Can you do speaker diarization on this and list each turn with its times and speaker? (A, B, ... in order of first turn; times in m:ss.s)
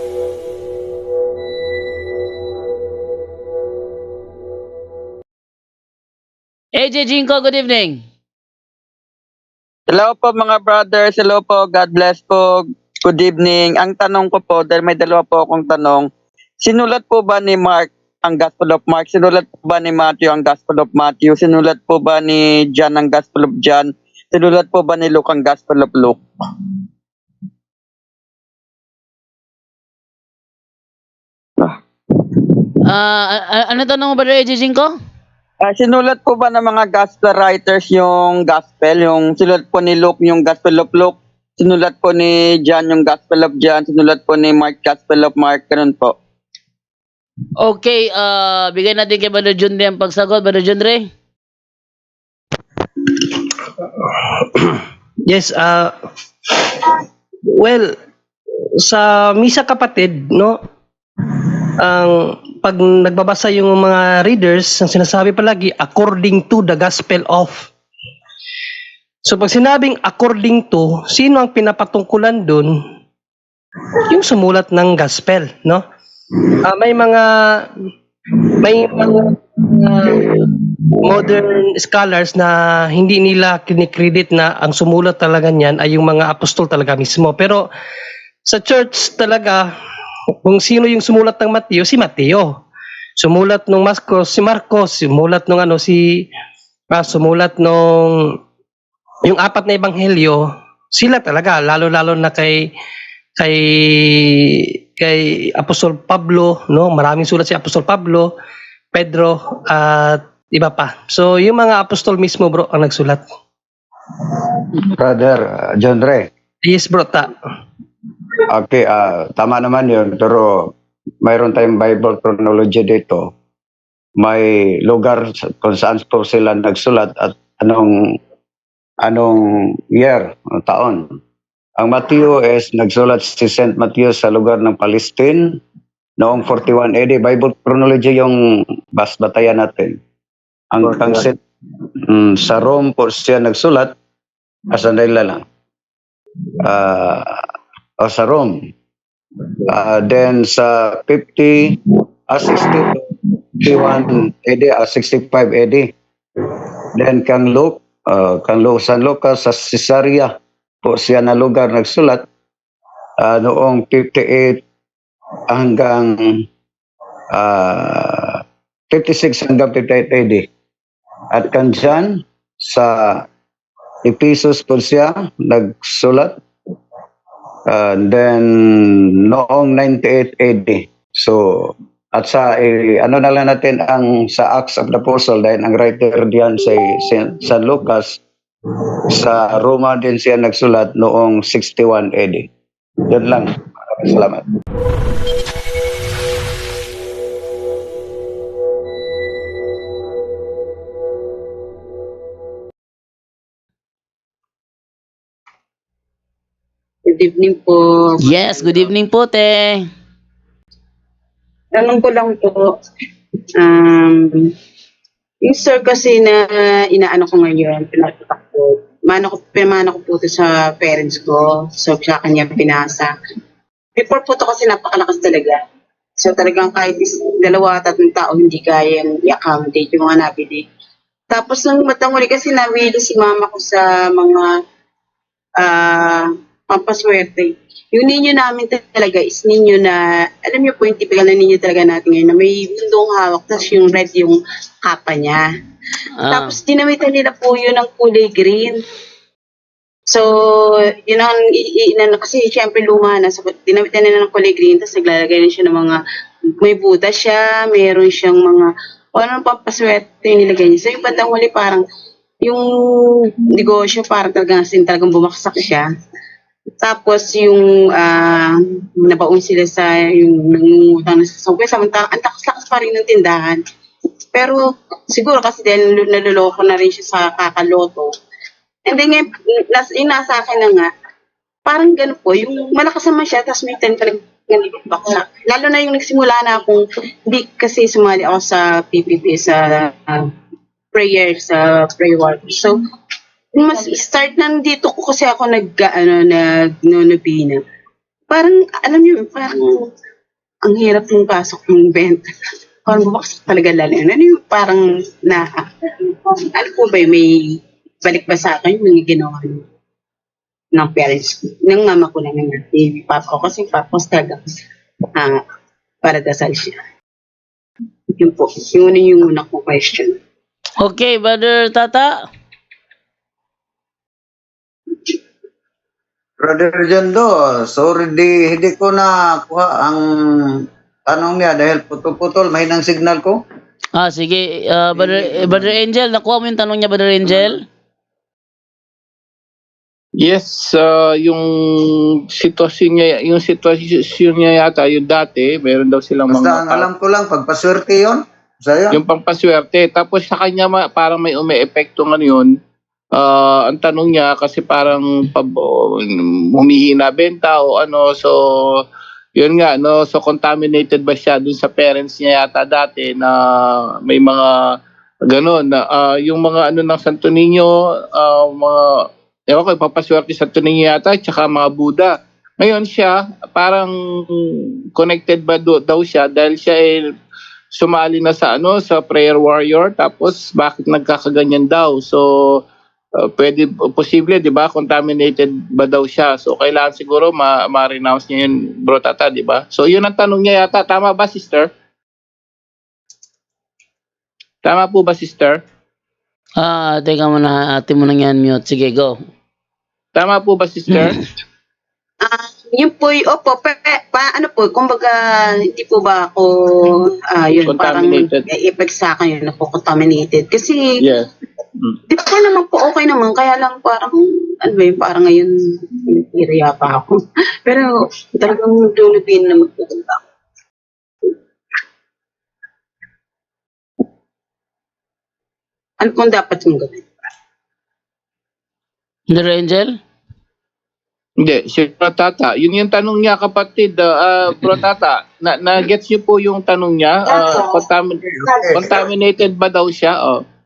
0:06.8-0:08.0 A
0:09.9-0:16.1 B
0:16.6-0:26.2 B
0:32.8-0:34.9 A
0:35.6-0:46.2 B
0:47.6-0:51.1 A
0:53.0-0:55.9 C
0:56.5-0:58.0 C
0:58.8-1:00.6 C
1:01.2-1:07.7 C
1:09.2-1:12.8 C
1:13.9-1:15.8 C
1:16.4-1:17.7 C
1:18.4-1:27.7 C
1:28.5-1:29.7 C
1:30.4-1:32.6 C
1:33.2-1:36.3 C
1:36.9-1:38.4 C
1:39.2-1:42.7 C
1:43.4-1:48.3 C
1:48.9-1:53.2 C
1:54.8-1:56.3 D
1:56.6-1:57.3 C
1:58.5-2:03.3 D
2:04.2-2:08.2 D
2:09.0-2:11.2 D
2:11.8-2:15.6 D
2:16.2-2:20.0 D
2:20.7-2:21.4 D
2:22.0-2:24.0 D
2:24.7-2:25.4 D
2:26.6-2:27.4 D
2:28.0-2:28.7 D
2:29.7-2:33.0 D
2:33.6-2:42.3 D
2:43.2-2:44.6 D
2:45.5-2:46.5 D
2:47.3-2:50.5 D
2:51.3-2:53.3 D
2:54.0-2:56.4 D
2:57.7-3:08.2 D
3:09.1-3:12.5 D
3:13.1-3:14.5 D
3:27.0-3:28.9 E
3:28.2-3:29.9 A
3:31.7-3:32.8 E
3:33.6-3:34.5 E
3:35.4-3:43.1 E
3:44.0-3:45.6 E
3:46.2-3:50.7 E
3:51.3-3:54.6 E
3:55.6-4:05.5 E
4:06.2-4:06.5 A
4:06.3-4:08.8 E
4:10.1-4:16.0 E
4:16.6-4:21.8 E
4:22.4-4:25.9 E
4:26.8-4:33.6 E
4:34.3-4:38.1 E
4:38.8-4:40.9 E
4:41.6-4:50.3 E
4:50.9-4:52.8 E
4:53.5-4:57.6 E
4:58.3-4:59.9 E
5:00.6-5:09.6 E
5:10.7-5:14.6 E
5:15.2-5:15.4 E
5:16.0-5:16.8 E
5:18.1-5:20.2 E
5:20.8-5:22.2 A
5:26.4-5:33.4 D
5:34.0-5:37.6 A
5:35.3-5:35.7 D
5:40.2-5:46.9 F
5:46.3-5:49.0 D
5:48.9-5:52.5 F
5:53.1-5:58.8 F
5:59.4-6:17.1 F
6:17.7-6:22.6 F
6:23.2-6:31.7 F
6:34.6-6:35.6 F
6:36.6-6:39.2 A
6:40.2-6:41.2 F
6:42.2-6:50.9 E
6:47.6-6:48.4 F
6:51.0-6:52.0 F
6:52.1-7:00.2 E
7:06.0-7:07.1 E
7:09.3-7:10.0 A
7:11.4-7:20.4 F
7:17.3-7:17.8 E
7:18.3-7:19.0 D
7:18.5-7:18.9 E